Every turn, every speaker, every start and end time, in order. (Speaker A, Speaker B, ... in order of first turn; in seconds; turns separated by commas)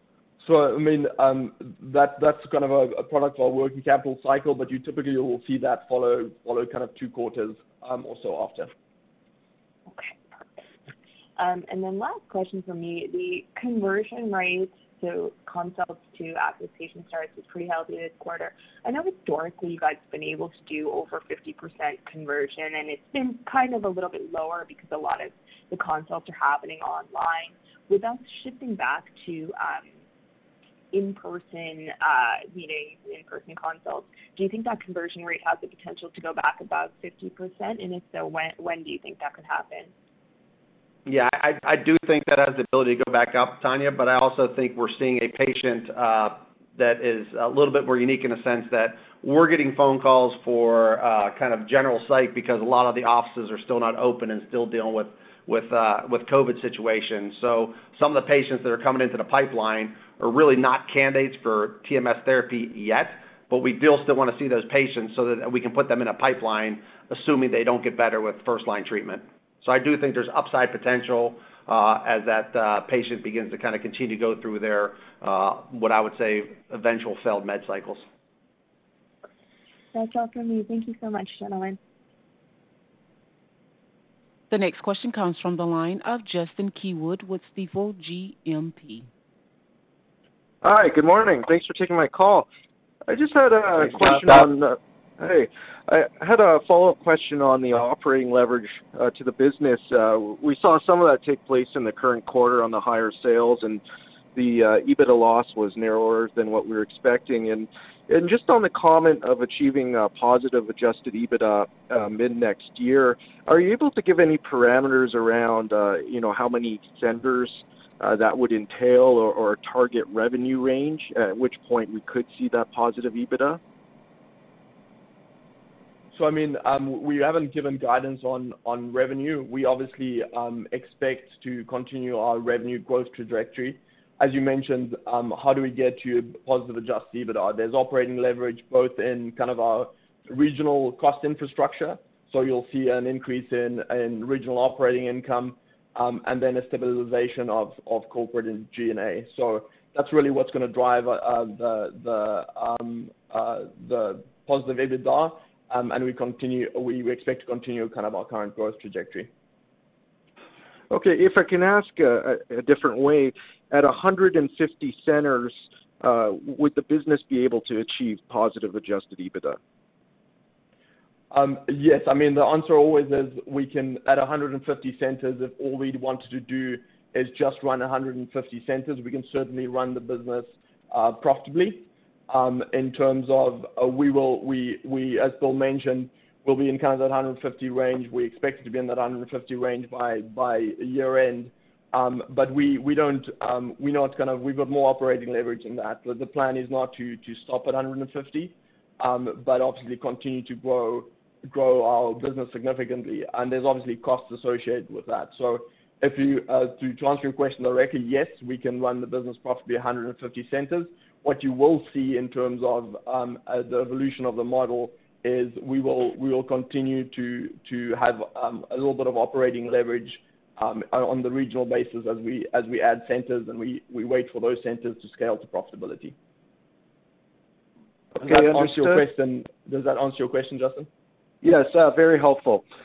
Speaker A: 0.4-8.7, Speaker B: 9.9-10.5, Speaker B: 11.4-29.9, Speaker B: 30.9-39.9, Speaker C: 41.1-78.0, Speaker B: 79.9-81.8, Speaker D: 84.5-89.1, Speaker E: 90.6-92.5, Speaker E: 93.1-103.8, Speaker E: 104.3-123.6, Speaker A: 126.1-159.3, Speaker E: 160.9-169.6, Speaker A: 171.3-226.2, Speaker E: 228.2-229.0, Speaker A: 228.2-230.9, Speaker E: 231.4-232.7